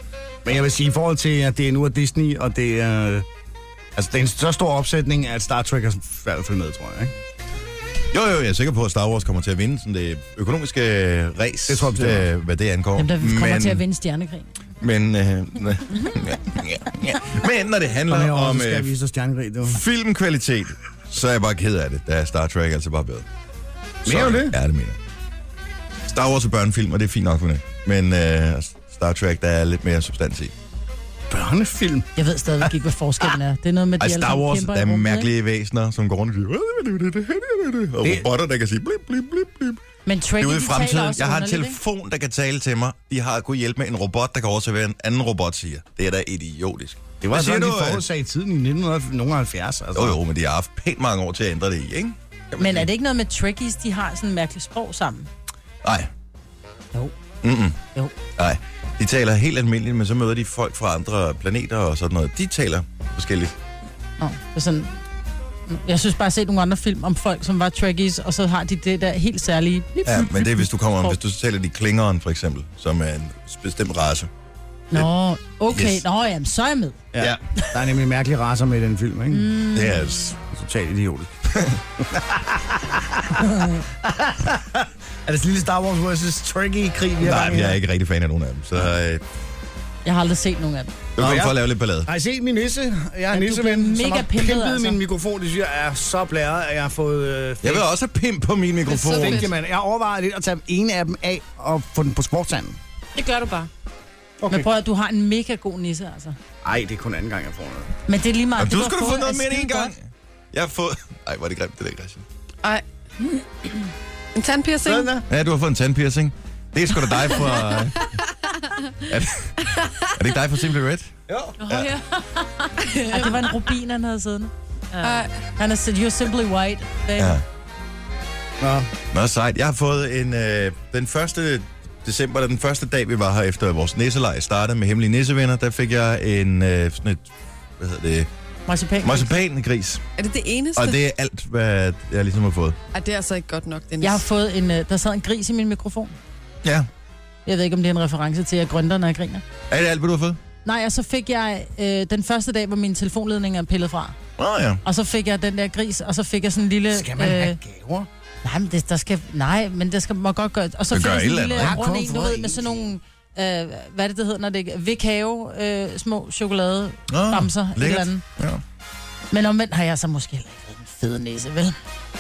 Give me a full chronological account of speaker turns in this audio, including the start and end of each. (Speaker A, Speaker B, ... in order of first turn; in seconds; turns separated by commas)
Speaker A: 0.4-3.2, Speaker A: 4.0-7.1, Speaker B: 8.1-13.8, Speaker A: 11.7-12.3, Speaker C: 12.9-14.5, Speaker B: 14.8-18.9, Speaker A: 18.1-19.8, Speaker B: 19.6-23.3, Speaker B: 24.1-25.0, Speaker A: 24.1-24.5, Speaker B: 26.0-30.5, Speaker A: 31.3-32.1, Speaker C: 32.2-35.3, Speaker B: 34.0-39.8, Speaker C: 40.1-41.8, Speaker B: 40.4-48.1, Speaker A: 47.2-50.2, Speaker B: 49.9-52.9, Speaker C: 52.6-55.3, Speaker B: 55.8-56.1, Speaker B: 57.4-57.8, Speaker B: 58.4-63.5, Speaker C: 64.2-64.9, Speaker C: 65.7-71.2, Speaker B: 70.0-74.3, Speaker C: 74.9-77.0, Speaker B: 75.7-76.0, Speaker A: 77.1-79.5, Speaker C: 79.3-80.3, Speaker B: 79.7-80.3, Speaker A: 80.4-87.8, Speaker B: 87.2-89.2, Speaker C: 90.0-90.9, Speaker B: 91.2-92.1, Speaker A: 91.2-97.8, Speaker C: 93.3-95.0, Speaker B: 97.6-99.5, Speaker D: 98.9-99.5, Speaker A: 99.1-102.8, Speaker E: 103.2-103.7, Speaker A: 104.4-104.7, Speaker C: 104.5-106.4, Speaker A: 106.6-107.9, Speaker C: 108.1-109.9, Speaker B: 108.6-112.2, Speaker D: 114.3-115.1, Speaker A: 114.8-115.2, Speaker B: 115.3-118.0, Speaker D: 117.5-118.9, Speaker B: 119.1-121.1, Speaker A: 121.3-121.6, Speaker E: 121.6-122.8, Speaker D: 122.8-123.5, Speaker C: 123.1-124.5, Speaker E: 124.9-125.2, Speaker D: 125.0-125.3, Speaker C: 125.6-127.4, Speaker B: 127.2-127.4, Speaker A: 128.6-128.9, Speaker B: 129.1-138.3, Speaker C: 138.7-139.3, Speaker B: 139.0-140.0, Speaker D: 140.2-140.9, Speaker B: 140.8-142.8, Speaker D: 142.9-144.2, Speaker C: 144.0-146.1, Speaker B: 146.6-146.9, Speaker C: 147.4-149.4, Speaker B: 149.7-150.4, Speaker C: 150.6-154.1, Speaker B: 154.4-154.8, Speaker C: 154.8-157.6, Speaker A: 156.9-158.1, Speaker C: 158.4-168.2, Speaker B: 160.9-161.8, Speaker A: 161.6-162.8, Speaker B: 167.1-168.6, Speaker C: 169.3-171.8